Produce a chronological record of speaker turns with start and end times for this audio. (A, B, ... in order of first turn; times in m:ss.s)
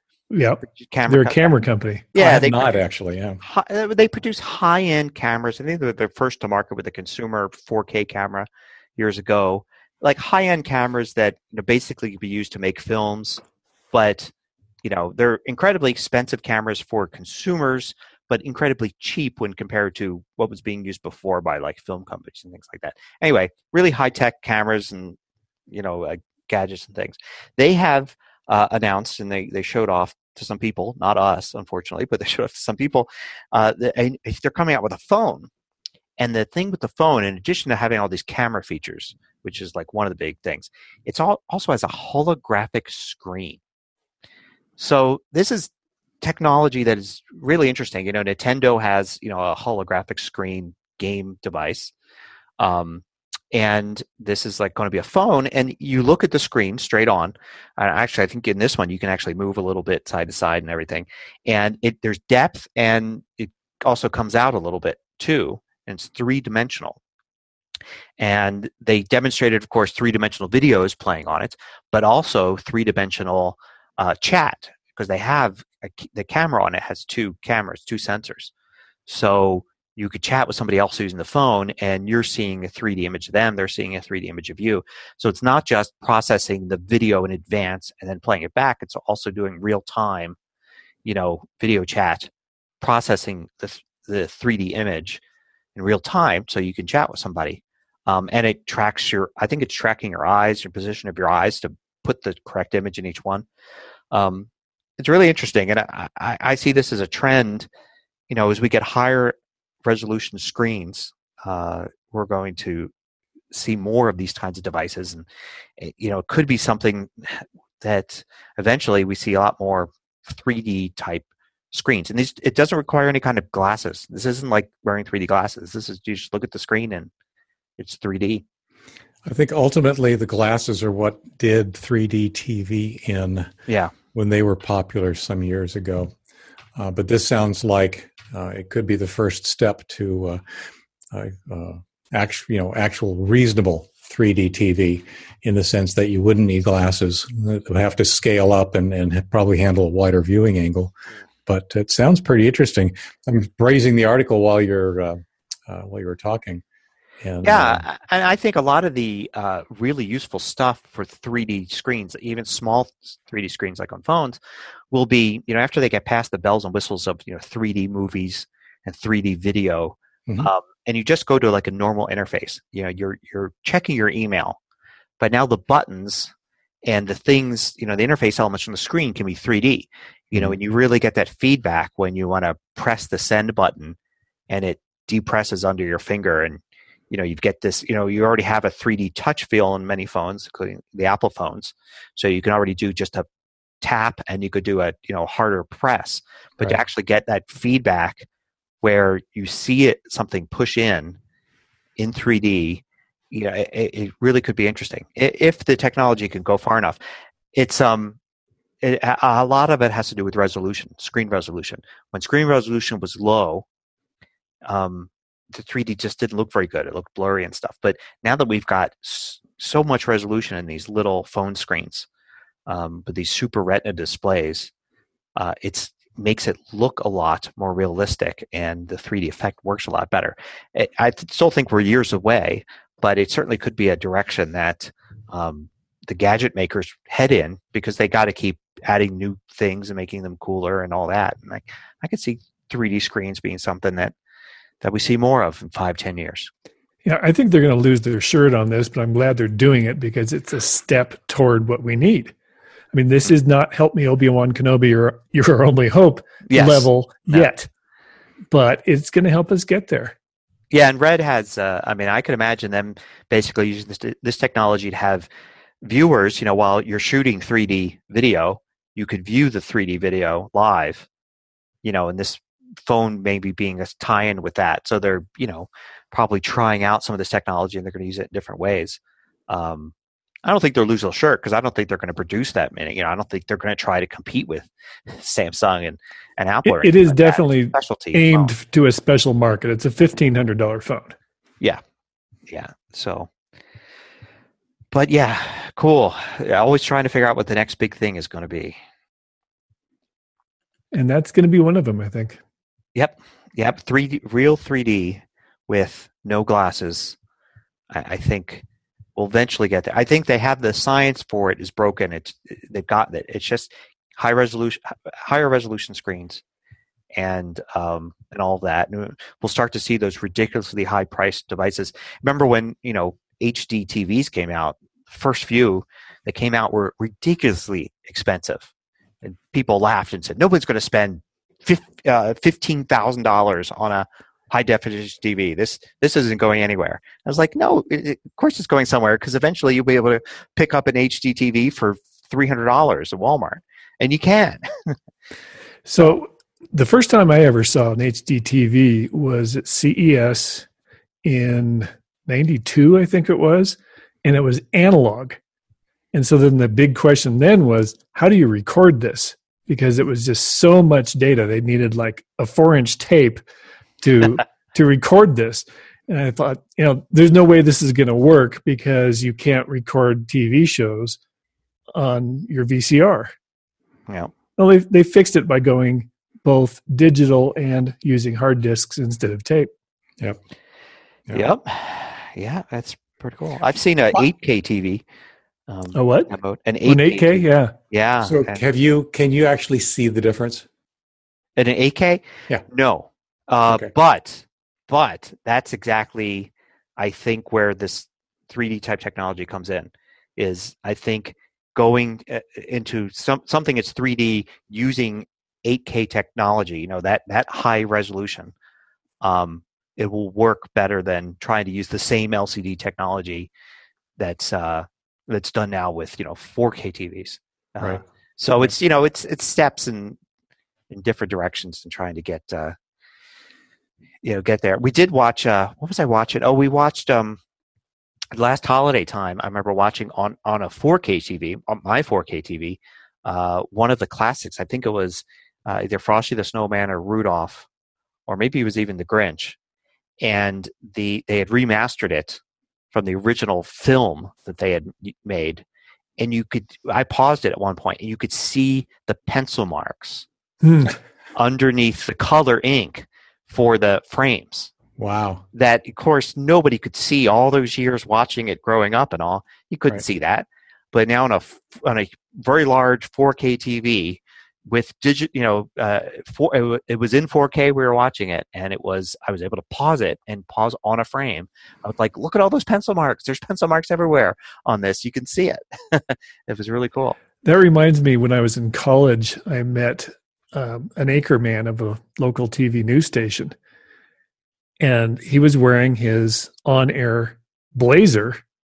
0:00.3-0:02.1 A
0:00.7-0:01.5 B
0:02.1-0:02.8 B
0:02.2-0:03.4 C
0:03.4-0:13.4 B
0:13.9-0:14.3 B
0:14.8-0:25.2 B
0:25.7-0:35.5 B
0:36.2-0:43.6 B
0:44.8-0:45.7 B
0:46.2-0:51.9 B
0:52.6-1:07.0 B
1:08.2-1:18.5 B
1:19.1-1:30.4 B
1:31.0-1:35.2 B
1:35.8-1:43.5 B
1:44.1-1:44.5 B
1:45.0-1:47.7 B
1:48.3-1:52.9 B
1:53.5-1:55.3 B
1:55.8-2:07.1 B
2:07.8-2:08.4 B
2:09.3-2:13.5 C
2:13.7-2:13.9 B
2:14.1-2:16.1 C
2:16.8-2:20.4 C
2:21.1-2:30.9 C
2:31.5-2:36.6 C
2:37.2-2:37.8 C
2:37.4-2:44.4 B
2:44.9-2:54.6 B
2:55.2-2:56.3 B
2:56.8-3:04.0 B
3:04.5-3:13.3 B
3:13.8-3:18.3 B
3:18.8-3:21.2 B
3:22.0-3:27.0 B
3:27.5-3:28.2 B
3:28.8-3:33.6 B
3:34.6-3:42.1 B
3:42.7-3:44.7 B
3:45.4-4:04.1 B
4:04.8-4:06.5 B
4:07.0-4:12.4 A
4:12.9-4:17.7 A
4:16.5-4:17.5 B
4:18.5-4:20.2 A
4:20.7-4:25.3 B
4:25.8-4:31.1 B
4:31.8-4:48.5 B
4:46.6-4:51.2 A
4:52.5-4:53.3 B
4:54.9-4:58.8 B
5:00.9-5:02.4 A
5:03.0-5:07.2 B
5:07.9-5:08.6 B
5:09.2-5:16.4 B
5:17.2-5:28.7 B
5:29.2-5:45.0 B
5:45.9-5:50.7 A
5:51.2-5:55.4 A
5:56.1-6:03.4 A
6:04.0-6:11.2 A
6:12.0-6:13.3 A
6:14.1-6:14.3 B
6:14.6-6:19.7 A
6:21.3-6:25.0 B
6:25.7-6:28.6 B
6:25.9-6:27.7 A
6:28.2-6:30.7 C
6:31.6-6:48.5 B
6:49.2-6:53.5 B
6:54.2-7:00.2 B
7:00.9-7:02.8 B
7:04.2-7:07.4 B
7:08.3-7:17.7 B
7:18.3-7:19.6 B
7:20.2-7:22.4 B
7:22.9-7:25.6 B
7:26.2-7:30.3 B
7:30.6-7:31.0 A
7:31.4-7:34.7 B
7:35.0-7:35.4 C
7:35.5-7:57.2 B
7:57.4-8:03.6 A
8:04.8-8:08.4 A